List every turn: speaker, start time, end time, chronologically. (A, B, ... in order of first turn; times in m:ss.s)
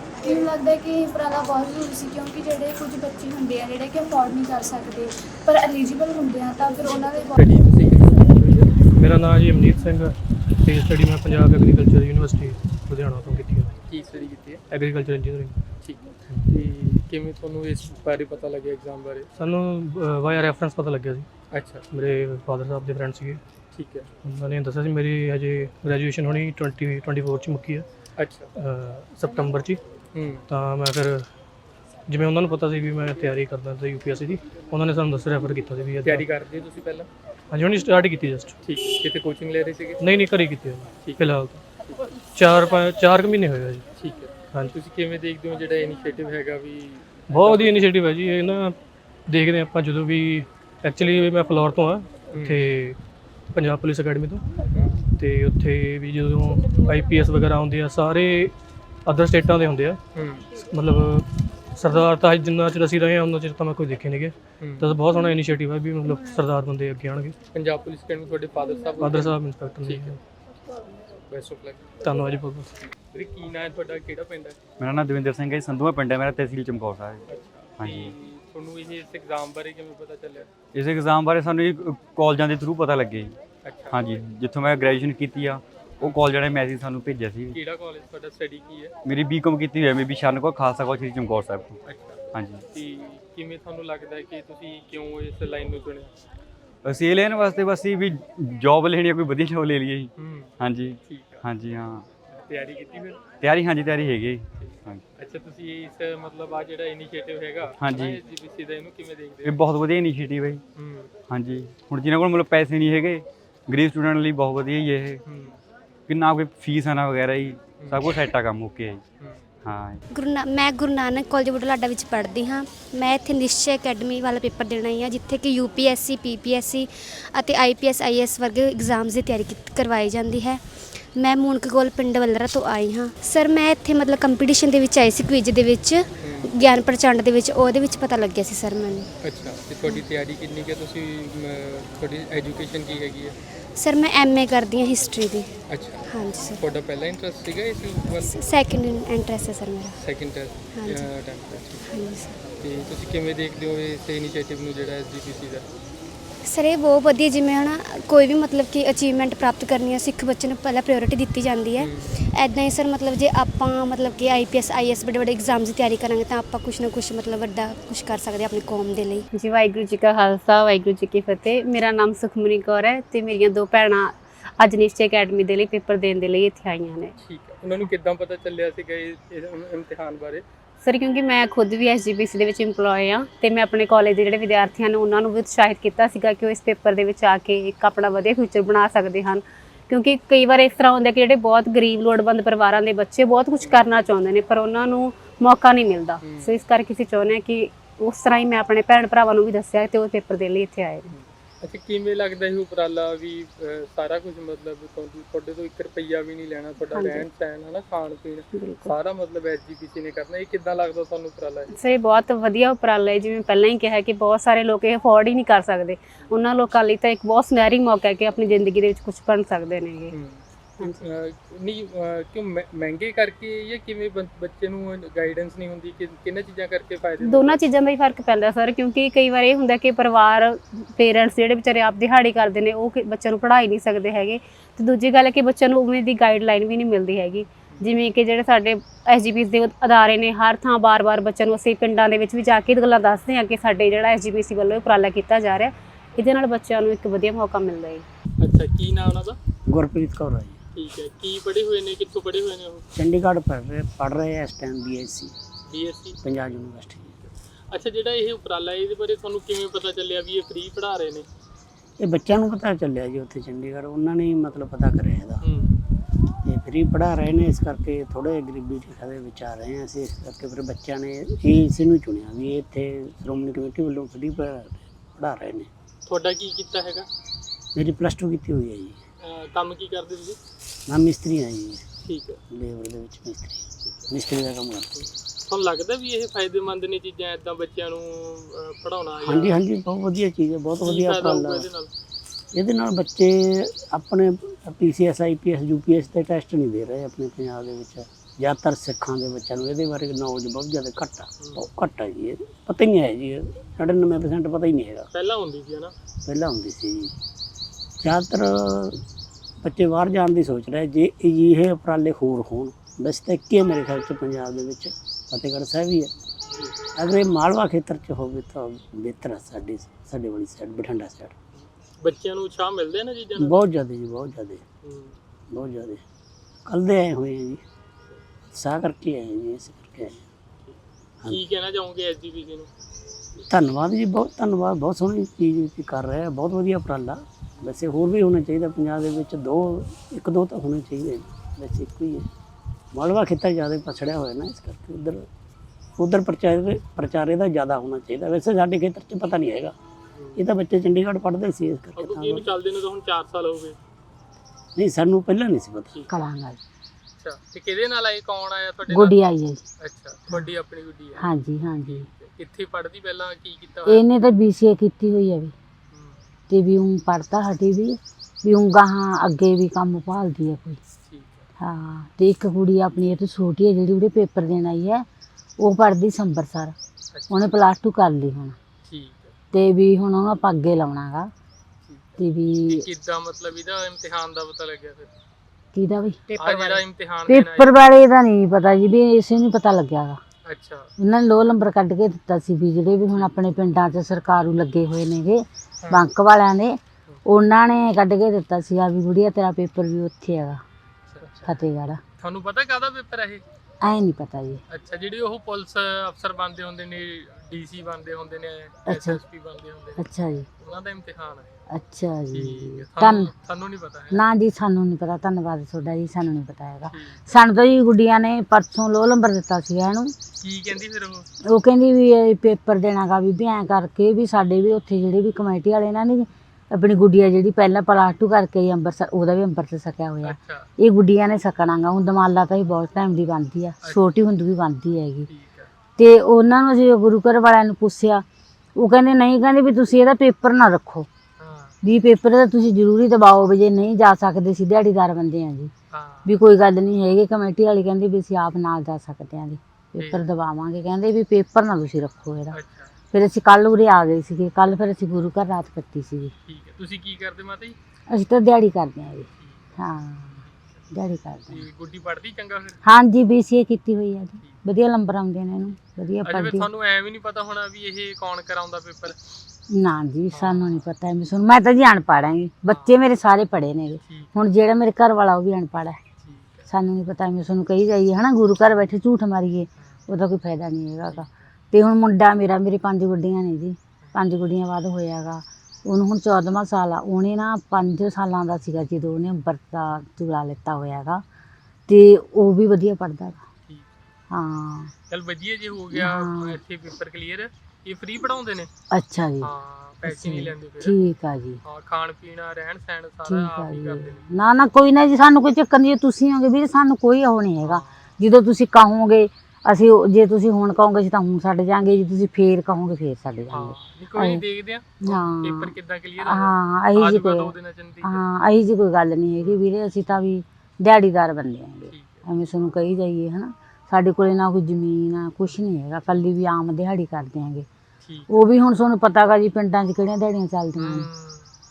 0:00.2-0:07.4 A
0:07.4-0:08.9 B
0:08.9-0:13.7 C
0:13.9-0:14.6 B
0:14.7-0:16.5 C
0:15.8-0:19.3 B
0:19.4-0:21.3 C
0:21.5-0:21.9 B
0:21.9-0:23.4 C
0:23.7-0:24.1 B
0:24.2-0:27.8 C
0:28.2-0:28.5 B
0:28.6-0:29.8 C
0:30.1-0:30.4 B
0:30.5-0:31.3 C
0:32.1-0:36.2 C
0:36.0-0:37.1 B
0:37.5-0:38.6 C
0:38.6-0:40.0 B
0:40.0-0:41.6 C
0:41.0-0:41.4 B
0:42.3-0:43.8 C
0:44.0-0:47.8 B
0:47.3-0:48.7 C
0:49.3-0:53.0 C
0:52.3-0:52.6 B
0:53.5-0:54.4 C
0:54.7-0:55.0 B
0:55.2-0:58.5 C
0:59.0-1:00.0 C
1:00.1-1:00.4 B
1:00.7-1:07.3 C
1:04.6-1:04.9 B
1:07.5-1:10.2 B
1:09.0-1:10.2 C
1:11.3-1:11.9 B
1:12.0-1:12.7 C
1:13.1-1:14.6 B
1:14.8-1:17.2 D
1:17.2-1:20.6 B
1:17.8-1:18.1 D
1:20.7-1:23.4 D
1:23.6-1:24.2 B
1:23.9-1:27.6 D
1:26.0-1:26.3 B
1:27.5-1:28.9 B
1:29.0-1:31.8 D
1:31.8-1:36.1 B
1:32.3-1:32.6 D
1:36.8-1:42.0 D
1:40.1-1:41.5 B
1:42.2-1:43.4 B
1:43.4-1:45.0 D
1:44.5-1:49.6 B
1:47.8-1:48.2 D
1:49.4-1:50.6 D
1:50.8-1:51.1 B
1:51.3-1:55.2 D
1:55.2-1:55.6 B
1:56.1-1:59.0 D
1:57.7-1:58.2 B
1:59.2-1:59.5 B
1:59.6-2:00.0 D
2:00.1-2:10.6 E
2:11.1-2:19.1 E
2:16.2-2:16.5 B
2:19.2-2:23.4 B
2:23.8-2:26.6 E
2:25.7-2:28.5 B
2:28.2-2:30.0 E
2:29.9-2:35.7 B
2:30.7-2:31.2 E
2:31.8-2:32.4 E
2:36.4-2:49.2 E
2:41.8-2:42.1 B
2:49.3-2:57.1 F
2:57.2-3:00.4 B
3:00.8-3:21.1 F
3:13.6-3:14.1 B
3:16.2-3:16.6 B
3:21.1-3:31.7 B
3:26.9-3:27.2 F
3:28.5-3:28.9 F
3:31.8-3:40.1 F
3:40.1-3:47.7 B
3:47.2-4:08.0 F
4:08.4-4:09.4 B
4:09.6-4:10.6 G
4:10.8-4:12.8 B
4:12.9-4:15.3 G
4:15.7-4:16.2 B
4:16.2-4:17.2 G
4:17.7-4:21.3 B
4:22.0-4:25.4 G
4:25.4-4:25.8 B
4:26.4-4:35.7 G
4:36.0-4:37.1 B
4:37.7-4:39.0 G
4:39.2-4:40.4 B
4:40.9-4:41.8 G
4:42.0-4:42.4 B
4:42.5-4:44.9 G
4:44.9-4:49.6 B
4:49.2-4:51.7 G
4:50.8-4:51.9 B
4:52.5-5:05.1 G
5:05.1-5:05.9 B
5:06.2-5:07.1 G
5:08.0-5:09.0 G
5:09.6-5:16.1 G
5:16.9-5:21.3 G
5:21.6-5:23.6 B
5:23.4-5:24.6 G
5:24.8-5:25.1 B
5:25.5-5:26.0 G
5:26.6-5:27.6 G
5:28.5-5:30.2 G
5:30.6-5:32.7 B
5:33.5-5:42.3 G
5:42.9-5:45.3 G
5:46.0-5:49.8 G
5:50.3-5:52.5 G
5:52.0-5:53.8 B
5:54.8-5:56.0 G
5:56.1-5:56.6 H
5:57.2-5:59.2 B
5:58.9-5:59.6 H
5:59.8-6:01.3 B
6:01.2-6:02.1 H
6:01.8-6:04.0 B
6:03.8-6:05.5 H
6:05.9-6:06.2 B
6:06.5-6:10.8 H
6:11.0-6:11.4 B
6:11.6-6:15.0 H
6:15.6-6:16.7 H
6:17.1-6:17.5 B
6:17.3-6:18.5 H
6:18.8-6:19.3 B
6:19.5-6:21.3 H
6:21.8-6:25.2 B
6:22.2-6:22.8 H
6:25.7-6:26.2 H
6:26.4-6:27.8 B
6:27.2-6:30.2 H
6:30.4-6:30.9 B
6:31.0-6:40.6 H
6:41.1-6:41.6 B
6:41.4-6:42.0 H
6:42.2-6:43.4 B
6:43.8-6:44.6 H
6:44.7-6:51.5 B
6:48.8-6:49.2 H
6:50.0-6:50.4 H
6:51.7-6:53.3 H
6:52.3-6:54.2 B
6:54.1-7:00.1 H
6:56.9-6:57.3 B
7:00.4-7:01.3 B
7:01.5-7:15.3 H
7:10.2-7:10.7 B
7:15.3-7:15.7 B
7:16.0-7:18.2 H
7:18.8-7:21.1 H
7:21.4-7:21.7 B
7:21.8-7:25.7 H
7:25.9-7:26.4 B
7:26.2-7:32.6 H
7:30.0-7:30.2 B
7:32.5-7:32.9 B
7:33.1-7:36.3 H
7:36.4-7:37.8 B
7:38.1-7:41.6 H
7:39.4-7:39.6 B
7:40.4-7:40.8 B
7:41.5-7:42.8 B
7:42.8-7:46.7 H
7:46.2-7:49.2 B
7:49.7-7:56.0 H
7:50.3-7:50.8 B
7:52.7-7:53.0 B
7:54.0-7:54.4 B
7:56.2-7:56.7 B
7:56.7-8:11.2 H
8:11.9-8:13.4 H
8:14.3-8:14.9 H
8:15.1-8:18.7 B
8:15.9-8:16.6 H
8:18.9-8:19.5 H
8:19.4-8:21.0 B
8:20.0-8:21.6 H
8:21.6-8:24.2 B
8:23.2-8:34.4 H
8:27.6-8:28.1 B
8:33.5-8:38.2 B
8:35.0-8:47.6 H
8:41.8-8:42.2 B
8:48.0-8:48.3 B
8:48.3-8:51.1 H
8:50.8-8:51.5 B